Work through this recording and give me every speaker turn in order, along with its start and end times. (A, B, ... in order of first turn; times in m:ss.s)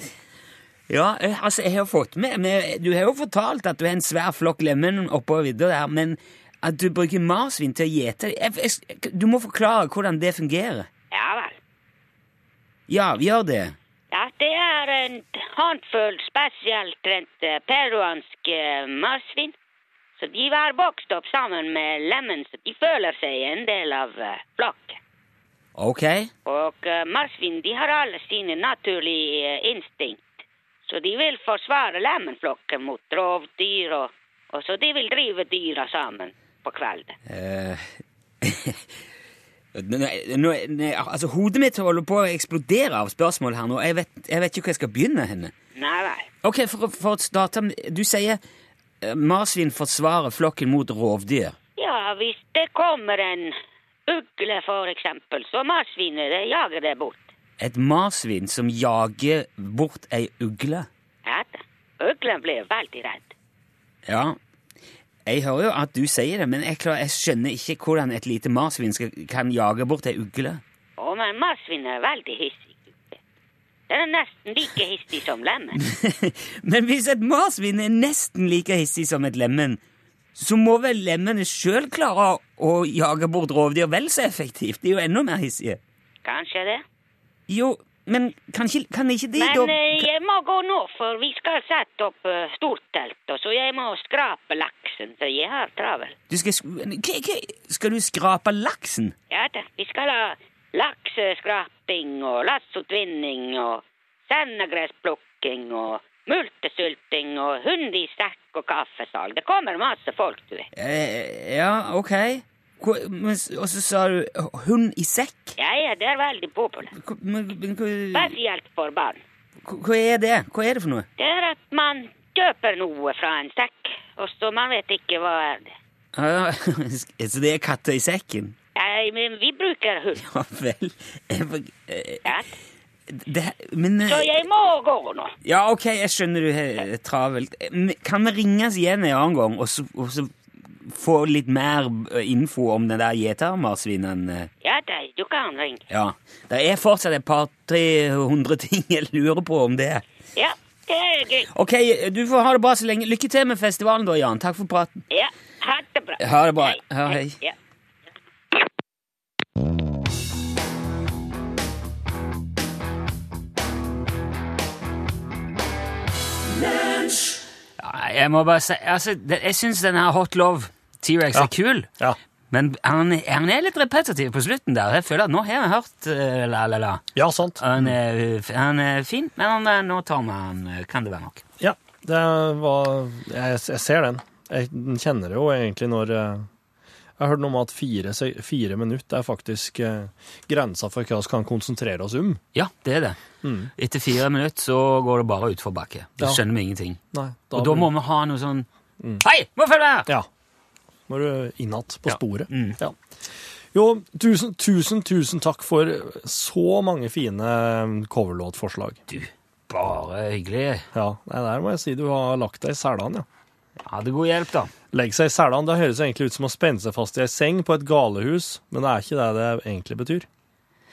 0:00.9-0:10.9 A
0:11.1-0:11.6 B
0:12.9-0:13.8 A
0:14.1-0:19.5 B
0:20.2-0:25.0 B
0:25.8-0:26.3 A
0:26.4-0:30.3 B
0:30.9-0:37.2 B
0:37.3-0:38.9 A
0:39.7-0:45.5 A
0:45.8-0:46.3 B
0:46.4-0:48.4 A
0:49.0-0:51.6 A
0:51.8-0:53.6 B
0:54.1-0:57.2 B
0:57.6-1:00.9 A
1:01.2-1:03.3 B
1:04.0-1:04.4 A
1:05.2-1:10.6 A
1:11.0-1:13.2 B
1:13.9-1:15.8 B
1:15.8-1:19.8 A
1:20.3-1:25.8 A
1:26.2-1:26.8 B
1:27.5-1:30.1 A
1:29.4-1:36.1 B
1:36.3-1:39.1 A
1:39.3-1:50.7 B
1:50.7-1:55.6 A
1:55.6-1:56.9 B
1:56.9-1:58.3 A
1:58.1-1:59.2 B
1:59.6-2:01.0 A
2:01.2-2:05.7 B
2:06.1-2:08.6 A
2:08.7-2:10.2 B
2:10.2-2:12.2 A
2:12.2-2:12.5 B
2:13.1-2:14.3 A
2:14.0-2:15.3 B
2:15.4-2:24.5 A
2:24.6-2:25.8 B
2:25.9-2:30.0 A
2:30.4-2:31.5 B
2:31.5-2:35.0 A
2:35.1-2:37.5 B
2:36.2-2:37.4 A
2:47.8-2:51.9 A
2:51.3-2:52.2 C
2:52.5-2:57.1 A
2:57.1-2:57.9 C
2:57.6-3:01.4 A
3:01.6-3:06.5 C
3:07.2-3:12.4 C
3:12.5-3:13.2 A
3:13.4-3:13.7 C
3:13.7-3:17.0 A
3:17.1-3:17.9 C
3:17.5-3:18.7 A
3:19.2-3:20.1 A
3:21.1-3:23.0 C
3:22.1-3:22.8 A
3:23.7-3:29.0 C
3:29.1-3:30.9 A
3:30.9-3:33.2 C
3:33.8-3:34.7 A
3:34.9-3:40.3 C